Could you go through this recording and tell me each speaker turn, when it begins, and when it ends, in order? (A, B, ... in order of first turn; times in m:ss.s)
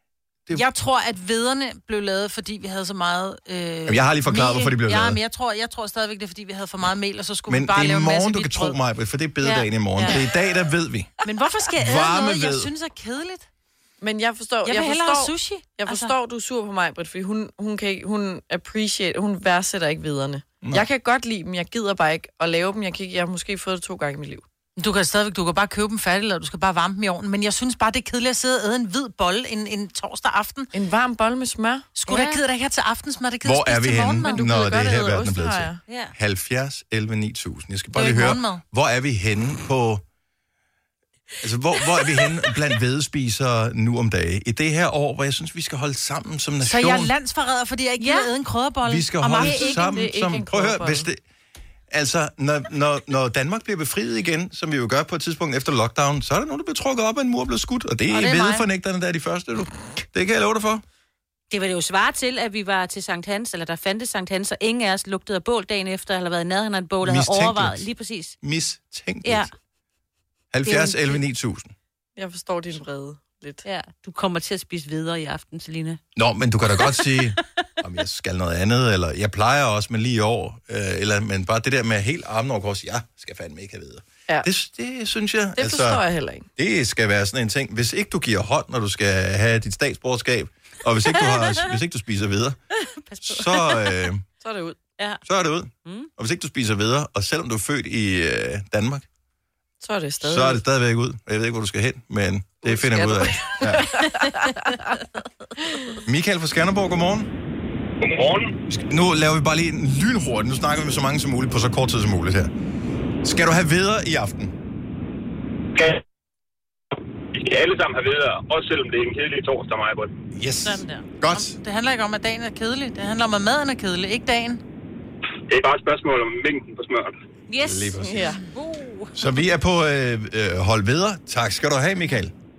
0:00.5-0:08.8 A
0:03.9-0:05.2 B
0:07.5-0:11.1 B
0:09.4-0:10.2 C
0:11.2-0:13.5 A
0:11.8-0:12.7 B
0:14.0-0:24.4 D
0:14.6-0:16.1 A
0:20.6-0:20.9 B
0:24.8-0:30.7 A
0:30.7-0:31.9 D
0:31.9-0:34.4 A
0:32.1-0:32.4 C
0:33.4-0:40.0 B
0:34.2-0:35.8 D
0:35.9-0:36.1 C
0:37.9-0:38.6 A
0:41.4-0:47.1 B
0:46.6-0:49.9 A
0:48.0-0:48.3 C
0:48.8-0:51.2 B
0:49.3-0:51.1 D
0:51.9-1:00.8 B
0:58.1-0:58.6 A
1:01.5-1:08.4 C
1:07.0-1:07.8 B
1:08.4-1:09.5 B
1:09.2-1:09.5 C
1:10.5-1:11.7 B
1:10.6-1:11.2 C
1:12.2-1:13.6 D
1:13.6-1:16.0 C
1:16.2-1:26.0 B
1:16.8-1:17.2 C
1:25.6-1:26.4 D
1:26.6-1:32.6 B
1:31.1-1:31.7 C
1:33.0-1:34.0 C
1:33.2-1:34.2 B
1:34.4-1:34.8 D
1:35.2-1:39.0 B
1:39.8-1:40.6 D
1:40.2-1:43.9 B
1:42.6-1:45.0 D
1:45.6-1:46.0 D
1:46.0-1:47.3 B
1:48.0-1:48.5 E
1:48.7-1:52.5 B
1:53.2-1:54.5 B
1:57.4-2:00.1 E
2:00.3-2:01.5 B
2:00.6-2:04.6 A
2:05.5-2:07.1 E
2:07.5-2:09.2 C
2:07.6-2:08.4 B
2:08.0-2:08.4 D
2:09.1-2:12.3 B